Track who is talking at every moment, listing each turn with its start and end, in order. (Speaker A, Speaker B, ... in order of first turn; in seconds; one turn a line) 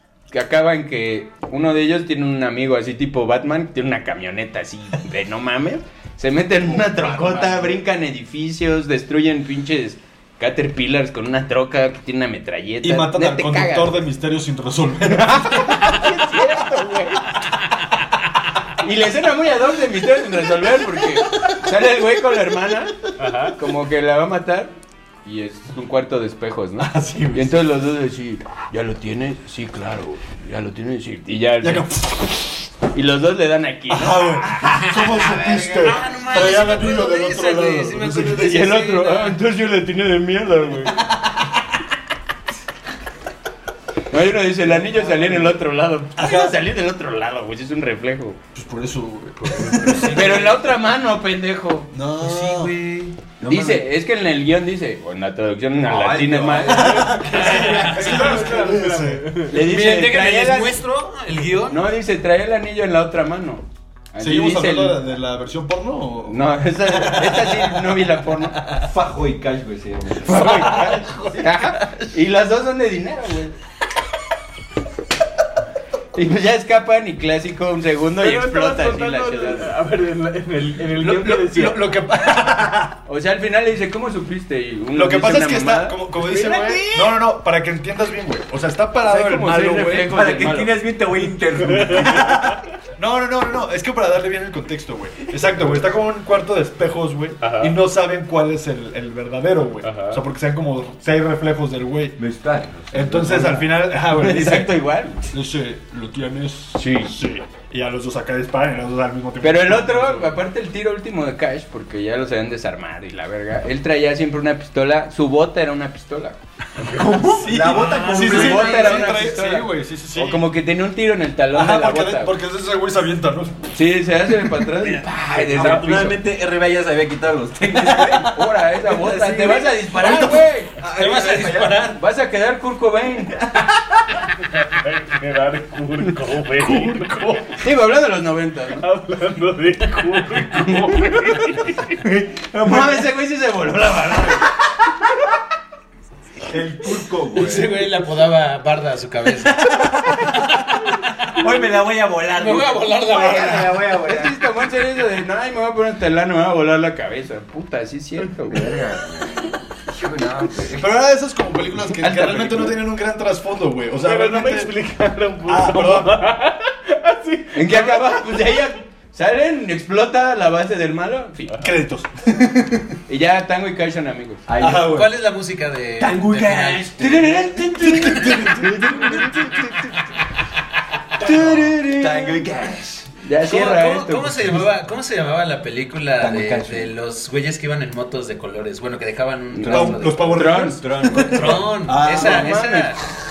Speaker A: 0.3-14.0
Speaker B: 6.9-7.6
Speaker B: 12.8-16.4
Speaker A: 15.1-17.3
Speaker A: 18.8-22.9
Speaker C: 23.2-23.6
Speaker A: 23.5-34.6
Speaker B: 26.8-27.6
Speaker B: 31.6-32.4
Speaker B: 33.9-38.7
Speaker D: 35.0-39.4
Speaker A: 38.3-41.0
Speaker B: 41.0-41.5
Speaker A: 44.1-48.4
Speaker B: 44.6-45.6
Speaker B: 46.2-46.6
Speaker B: 48.5-50.6
Speaker A: 50.0-51.9
Speaker B: 51.9-52.7
Speaker D: 52.2-53.2
Speaker E: 53.4-53.9
Speaker A: 53.5-58.3
Speaker E: 55.9-57.2
Speaker B: 56.6-59.3
Speaker C: 56.7-59.6
Speaker D: 57.2-58.6
Speaker A: 59.5-60.8
Speaker D: 59.5-61.9
Speaker A: 61.7-65.0
Speaker B: 64.2-68.0
Speaker A: 66.2-68.6
Speaker E: 68.8-71.4
Speaker A: 70.2-73.5
Speaker C: 70.9-71.3
Speaker A: 76.1-79.8
Speaker C: 78.2-81.9
Speaker B: 81.0-83.0
Speaker A: 83.1-86.0
Speaker B: 84.9-90.2
Speaker C: 86.2-86.9
Speaker A: 89.0-90.8
Speaker E: 90.0-92.5
Speaker C: 91.6-92.6
Speaker B: 91.9-92.4
Speaker B: 93.0-102.2
Speaker C: 97.4-97.8
Speaker C: 99.8-100.2
Speaker E: 102.2-103.7
Speaker B: 102.9-104.8
Speaker A: 104.0-105.3
Speaker B: 105.3-110.3
Speaker A: 106.8-107.2
Speaker A: 109.4-116.4
Speaker C: 116.8-117.4
Speaker E: 116.9-119.1
Speaker B: 117.3-120.5
Speaker D: 117.8-119.1
Speaker A: 117.8-122.3
Speaker B: 121.5-123.7
Speaker A: 123.7-126.2
Speaker E: 125.0-131.9
Speaker C: 125.5-126.1
Speaker A: 127.9-130.8
Speaker D: 130.9-132.0
Speaker A: 131.9-133.4
Speaker C: 134.5-137.6
Speaker B: 136.6-137.5
Speaker A: 137.6-138.9
Speaker C: 138.8-142.0
Speaker A: 140.5-141.4
Speaker E: 142.0-143.1
Speaker A: 142.5-144.5
Speaker E: 146.5-147.8
Speaker D: 147.3-149.7
Speaker E: 149.5-150.6
Speaker E: 151.3-154.4
Speaker D: 152.3-153.9
Speaker A: 153.9-158.7
Speaker E: 158.5-160.9
Speaker B: 160.7-164.7
Speaker A: 162.0-162.8
Speaker C: 163.9-168.4
Speaker B: 165.4-166.3
Speaker A: 167.5-171.5
Speaker C: 171.5-171.8
Speaker B: 171.6-173.0
Speaker A: 173.1-174.4
Speaker E: 174.5-175.1
Speaker B: 174.6-175.1
Speaker D: 174.8-178.5
Speaker E: 176.0-179.8
Speaker A: 177.4-178.2
Speaker B: 177.8-179.7
Speaker E: 181.2-183.1
Speaker A: 181.2-182.4
Speaker A: 183.2-184.6
Speaker D: 183.4-190.4
Speaker E: 186.2-186.9
Speaker A: 189.5-193.0
Speaker B: 189.7-192.6
Speaker E: 190.5-191.8
Speaker D: 191.1-193.0